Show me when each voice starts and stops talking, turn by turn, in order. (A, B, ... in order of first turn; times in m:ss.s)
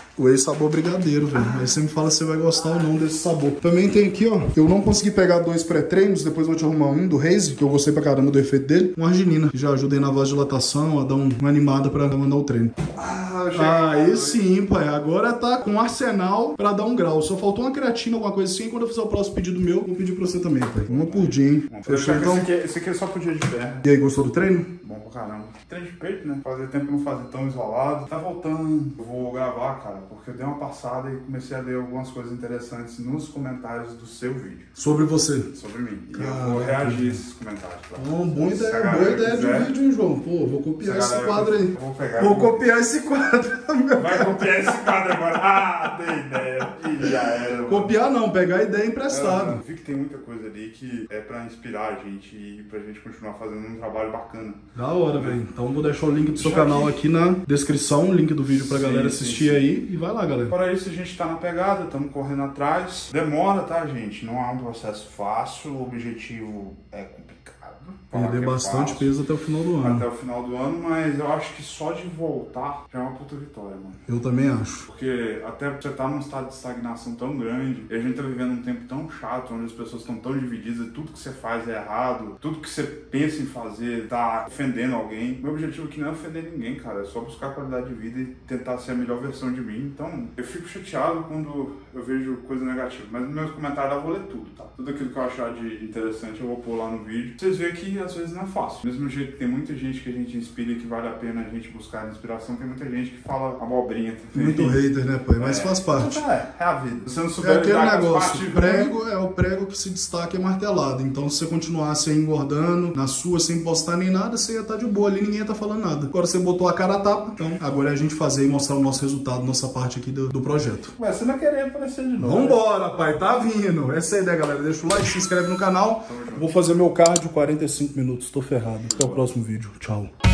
0:00.2-0:12.8 A
0:12.9-0:14.4 B
0:13.5-0:22.5 A
0:20.8-0:23.8 B
0:23.8-0:24.7 A
0:24.8-0:34.7 B
0:34.8-0:35.5 A
0:35.5-0:39.7 B
0:36.1-0:37.2 A
0:38.0-0:44.4 A
0:40.8-0:42.7 B
0:44.0-0:47.9 B
0:47.7-0:49.6 A
0:49.1-0:55.4 B
0:54.7-1:00.5 A
0:56.3-0:57.0 B
0:58.5-0:59.6 B
1:00.5-1:09.1 B
1:08.1-1:10.0 A
1:09.8-1:14.0 B
1:14.1-1:14.8 A
1:14.9-1:44.8 B
1:44.3-1:46.2 A
1:45.4-1:48.9 B
1:47.4-2:00.9 A
2:01.0-2:02.6 B
2:02.2-2:10.1 A
2:06.0-2:06.5 B
2:08.8-2:09.3 B